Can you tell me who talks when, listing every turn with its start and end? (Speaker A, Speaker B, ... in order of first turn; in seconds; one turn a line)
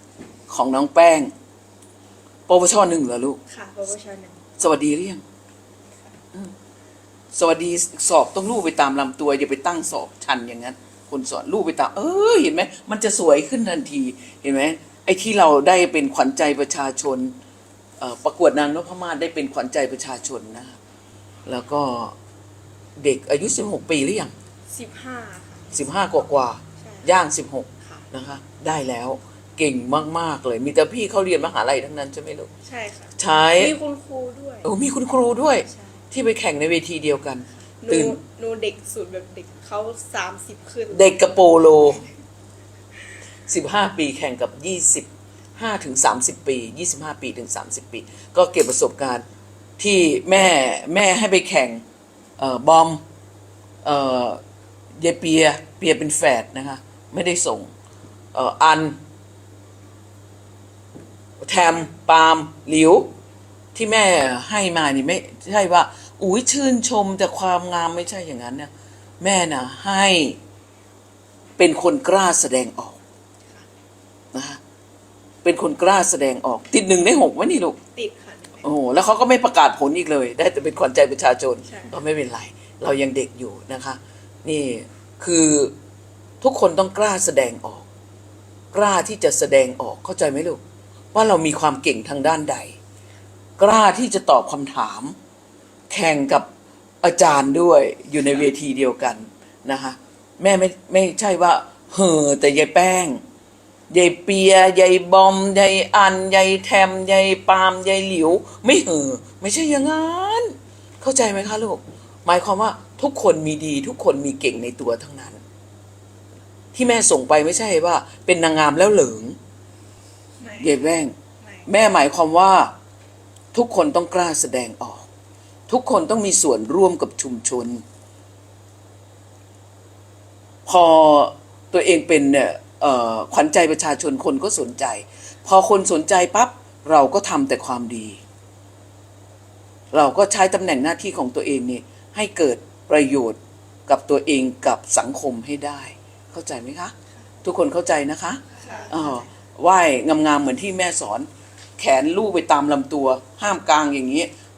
Speaker A: 0.5-1.3
Speaker A: 2.5-3.4
Speaker B: 3.5-4.4
Speaker A: 4.6-5.2
Speaker A: 7.3-17.3
Speaker A: 18.0-20.8
Speaker A: 21.4-22.1
Speaker A: 23.0-24.3
Speaker B: 24.7-25.7
Speaker A: 25.7-32.5
Speaker B: 26.8-27.1
Speaker B: 32.6-34.7
Speaker A: 33.2-33.7
Speaker A: 34.6-38.2
Speaker B: 35.6-36.0
Speaker B: 37.8-41.1
Speaker A: 40.9-42.0
Speaker A: 43.5-49.2
Speaker A: 49.8-51.8
Speaker A: 52.4-53.0
Speaker A: 53.8-54.4
Speaker A: 55.0-57.7
Speaker A: 58.3-59.0
Speaker A: 61.4-63.1
Speaker A: 63.7-68.7
Speaker A: 69.2-70.4
Speaker A: 71.6-73.0
Speaker A: 74.3-74.6
Speaker A: 75.4-77.8
Speaker B: 77.9-78.7
Speaker A: 78.6-85.7
Speaker B: 81.6-81.9
Speaker A: 86.4-87.8
Speaker A: 88.7-90.6
Speaker A: 91.1-92.8
Speaker A: 93.6-95.2
Speaker A: 95.9-96.5
Speaker A: 97.0-103.2
Speaker A: 103.9-115.4
Speaker A: 116.7-119.4
Speaker B: 120.4-120.9
Speaker A: 120.6-121.1
Speaker B: 121.4-121.7
Speaker A: 121.7-122.7
Speaker A: 123.5-125.0
Speaker A: 125.7-127.8
Speaker A: 130.7-138.2
Speaker A: 139.9-154.3
Speaker B: 148.6-149.3